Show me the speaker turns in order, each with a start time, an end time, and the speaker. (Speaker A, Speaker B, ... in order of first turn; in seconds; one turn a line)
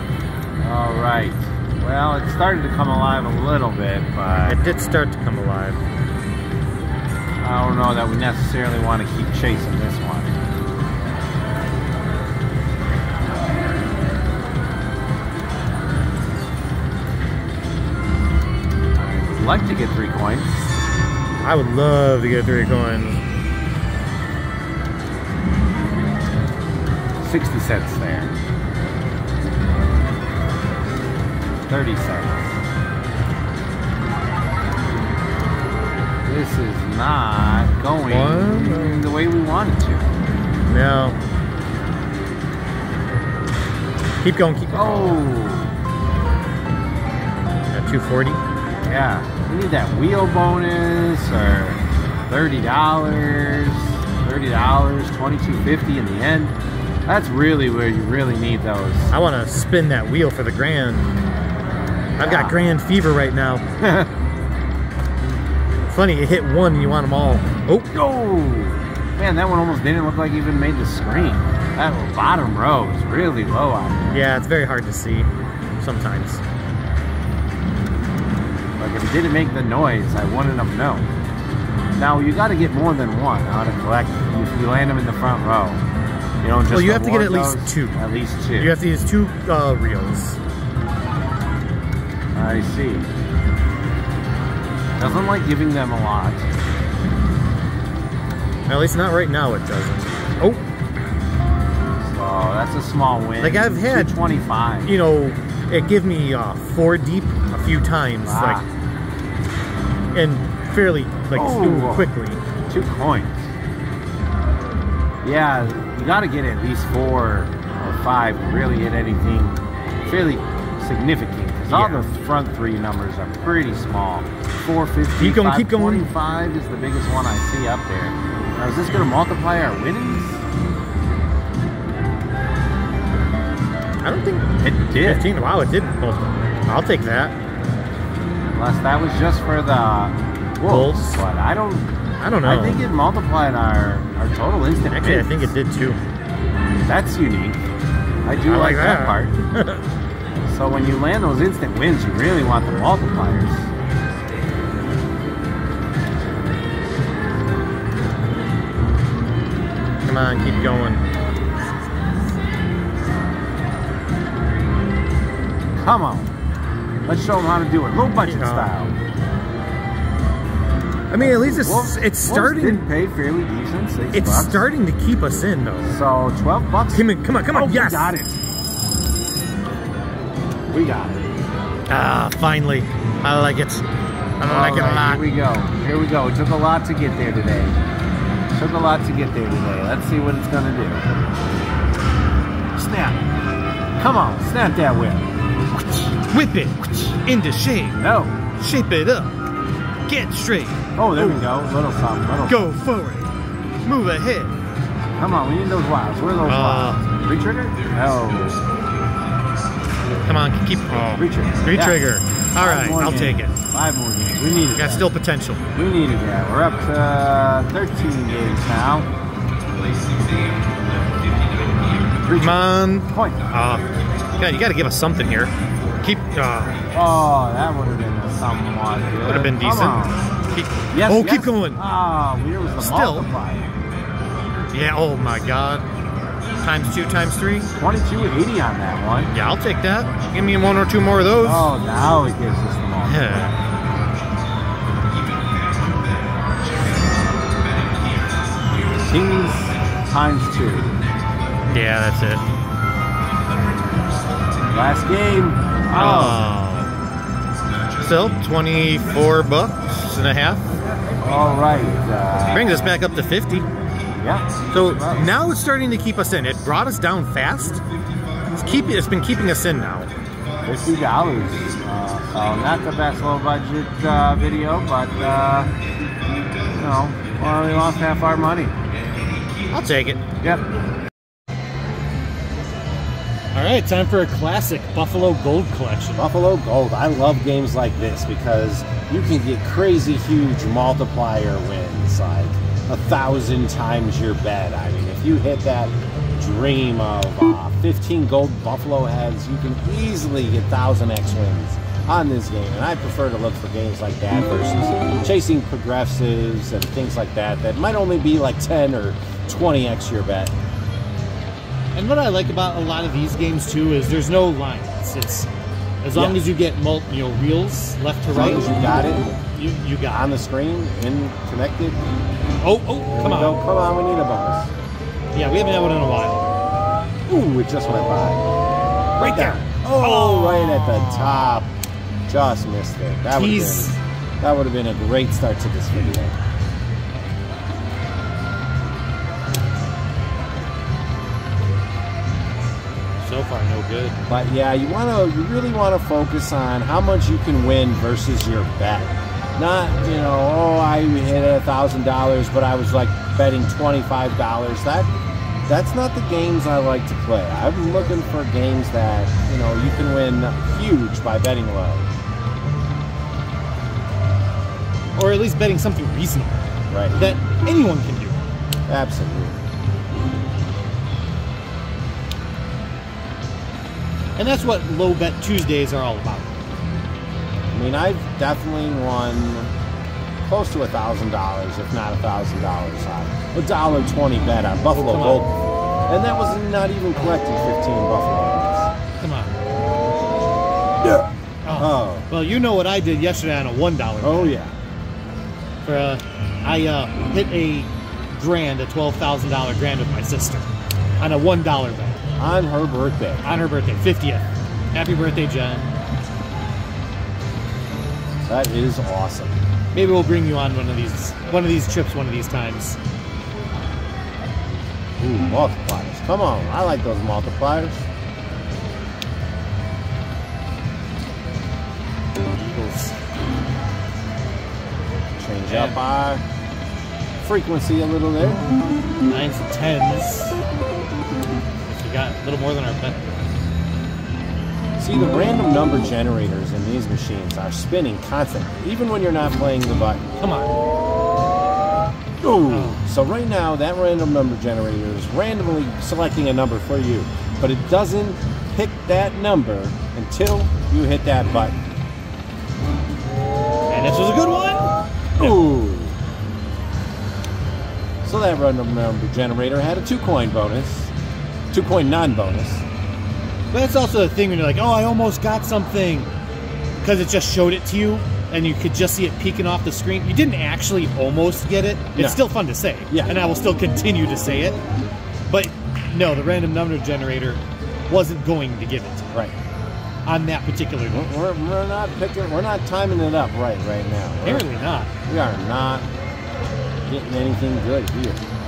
Speaker A: 0.6-4.6
Speaker B: 4.5-5.8
Speaker A: 7.4-10.3
Speaker A: 19.0-20.5
Speaker B: 21.4-23.2
Speaker A: 27.2-28.4
Speaker A: 31.7-32.5
Speaker A: 36.2-40.2
Speaker B: 38.1-39.1
Speaker B: 40.7-41.2
Speaker B: 44.2-45.2
Speaker A: 44.7-45.7
Speaker B: 47.7-48.4
Speaker A: 48.8-59.1
Speaker B: 59.1-61.1
Speaker B: 62.2-63.6
Speaker A: 62.2-62.6
Speaker A: 63.8-64.1
Speaker B: 65.9-67.9
Speaker A: 67.9-74.2
Speaker B: 74.1-76.4
Speaker A: 78.8-81.1
Speaker A: 82.0-85.8
Speaker A: 86.4-88.8
Speaker B: 86.7-88.0
Speaker B: 88.6-90.4
Speaker A: 92.3-93.1
Speaker A: 95.0-96.5
Speaker B: 98.7-100.6
Speaker A: 102.0-105.0
Speaker B: 103.4-104.1
Speaker B: 104.9-108.6
Speaker A: 108.2-108.7
Speaker B: 110.1-112.4
Speaker A: 111.3-112.1
Speaker A: 112.7-113.5
Speaker A: 115.2-130.4
Speaker B: 121.7-122.1
Speaker B: 125.2-126.1
Speaker B: 134.0-137.3
Speaker A: 134.6-135.3
Speaker A: 138.5-141.9
Speaker B: 140.7-141.2
Speaker B: 142.2-142.8
Speaker A: 142.4-145.5
Speaker B: 144.9-146.0
Speaker A: 146.8-147.6
Speaker A: 148.2-149.4
Speaker B: 148.5-149.8
Speaker A: 150.5-153.7
Speaker B: 160.1-161.1
Speaker A: 165.7-166.3
Speaker A: 167.1-169.0
Speaker B: 168.2-168.7
Speaker B: 171.1-172.8
Speaker A: 171.2-174.7
Speaker B: 174.1-175.9
Speaker A: 175.8-178.3
Speaker B: 176.9-178.2
Speaker A: 180.7-181.3
Speaker B: 181.9-183.8
Speaker B: 184.4-185.2
Speaker A: 184.4-187.8
Speaker A: 188.5-191.1
Speaker A: 192.8-193.2
Speaker A: 194.0-195.3
Speaker B: 196.3-198.0
Speaker A: 197.9-198.4
Speaker B: 198.6-199.3
Speaker B: 200.1-201.5
Speaker A: 201.0-202.7
Speaker B: 202.5-203.3
Speaker B: 203.8-204.5
Speaker A: 205.2-208.6
Speaker B: 206.5-207.0
Speaker B: 210.2-213.5
Speaker A: 211.1-212.0
Speaker A: 212.6-215.1
Speaker B: 214.7-215.6
Speaker A: 215.7-219.1
Speaker A: 221.4-223.5
Speaker B: 222.4-226.8
Speaker A: 226.9-230.3
Speaker B: 229.2-231.8
Speaker A: 230.9-233.7
Speaker B: 232.8-233.3
Speaker B: 234.7-235.8
Speaker B: 236.6-237.7
Speaker A: 237.8-239.3
Speaker B: 239.3-241.7
Speaker A: 241.4-243.5
Speaker B: 243.0-243.6
Speaker A: 248.9-251.0
Speaker B: 251.7-252.4
Speaker A: 254.7-256.4
Speaker B: 255.9-256.9
Speaker B: 258.0-260.6
Speaker A: 261.2-262.9
Speaker B: 262.5-263.7
Speaker A: 264.1-265.3
Speaker B: 264.7-267.8
Speaker B: 268.5-270.1
Speaker A: 270.6-275.7
Speaker A: 276.7-278.8
Speaker B: 279.7-280.2
Speaker A: 280.4-280.6
Speaker B: 283.5-286.3
Speaker A: 286.2-310.5
Speaker B: 311.9-315.5
Speaker B: 316.0-318.6
Speaker A: 316.1-316.4
Speaker A: 318.3-319.3
Speaker B: 319.5-320.3
Speaker A: 320.0-322.0
Speaker B: 322.6-323.6
Speaker A: 323.1-324.7
Speaker B: 325.3-326.5
Speaker A: 327.3-328.5
Speaker B: 329.2-331.6
Speaker A: 329.2-331.7
Speaker A: 332.3-336.4
Speaker B: 333.4-334.0
Speaker B: 343.2-344.2
Speaker A: 344.3-355.1
Speaker A: 355.7-362.1
Speaker B: 365.2-366.6
Speaker A: 366.9-367.2
Speaker B: 367.2-368.4
Speaker A: 368.9-369.6
Speaker B: 374.4-376.5
Speaker A: 377.7-379.7
Speaker A: 380.4-388.9
Speaker B: 384.9-385.5
Speaker B: 389.2-389.5
Speaker B: 391.6-394.5
Speaker A: 391.8-392.3
Speaker A: 394.2-394.7
Speaker B: 395.8-400.7
Speaker B: 401.2-402.2
Speaker A: 402.4-403.5
Speaker B: 403.4-405.9
Speaker A: 408.5-409.6
Speaker B: 409.9-413.0
Speaker A: 415.2-418.1
Speaker B: 422.5-423.2
Speaker A: 425.4-426.4
Speaker B: 425.7-426.0
Speaker A: 427.4-428.7
Speaker B: 429.3-430.6
Speaker B: 431.9-433.4
Speaker A: 435.0-440.2
Speaker B: 440.4-440.7
Speaker A: 442.4-451.8
Speaker B: 442.7-443.0
Speaker B: 453.9-455.6
Speaker A: 455.4-456.2
Speaker A: 458.2-461.1
Speaker A: 461.7-462.9
Speaker B: 463.7-466.3
Speaker B: 467.0-474.8
Speaker A: 472.2-472.4
Speaker A: 473.1-473.4
Speaker B: 475.5-479.4
Speaker B: 480.3-481.2
Speaker A: 481.1-484.7
Speaker B: 484.4-485.1
Speaker A: 485.3-486.1
Speaker A: 487.1-488.4